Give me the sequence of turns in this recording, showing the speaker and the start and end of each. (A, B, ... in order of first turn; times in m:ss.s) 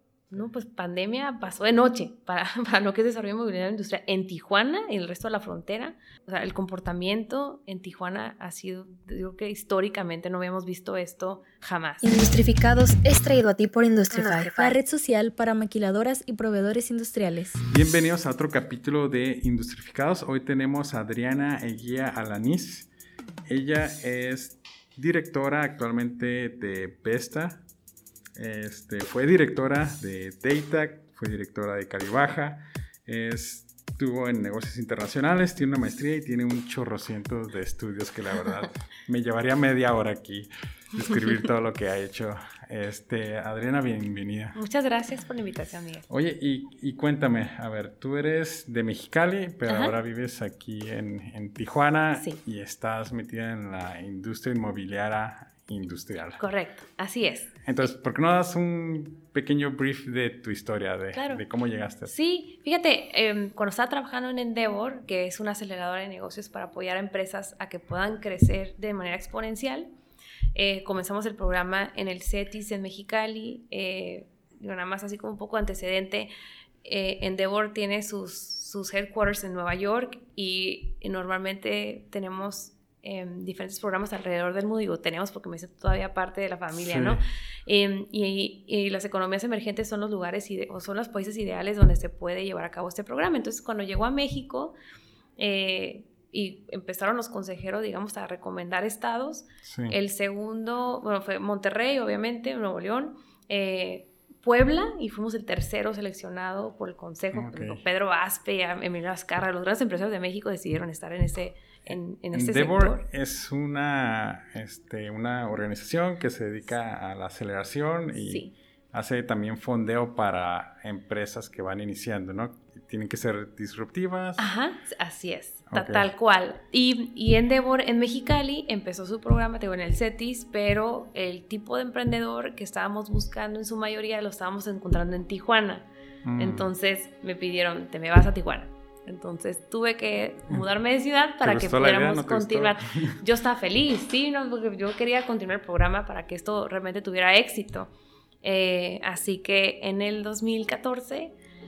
0:00.3-0:12.0 A
0:12.0-0:17.7 B
0:17.7-0:22.9 C
0:23.5-0:27.6 C
0:28.4-0:44.6 C
0:44.5-0:46.1 A
0:46.1-0:56.4 C
0:49.7-0:49.9 A
0:52.1-0:52.4 A
0:56.4-0:57.5 A
0:57.6-1:02.1 C
1:01.1-1:01.4 A
1:02.0-1:09.9 A
1:10.5-1:16.3 A
1:16.8-1:34.7 A
1:26.7-1:27.2 C
1:35.4-1:53.0 A
1:39.6-1:40.0 C
1:47.3-1:47.8 C
1:51.9-2:04.5 C
1:58.2-1:58.5 A
2:04.4-2:15.9 A
2:05.7-2:06.0 C
2:16.2-2:16.7 C
2:16.4-2:27.9 A
2:21.4-2:23.2 C
2:28.4-2:31.3 A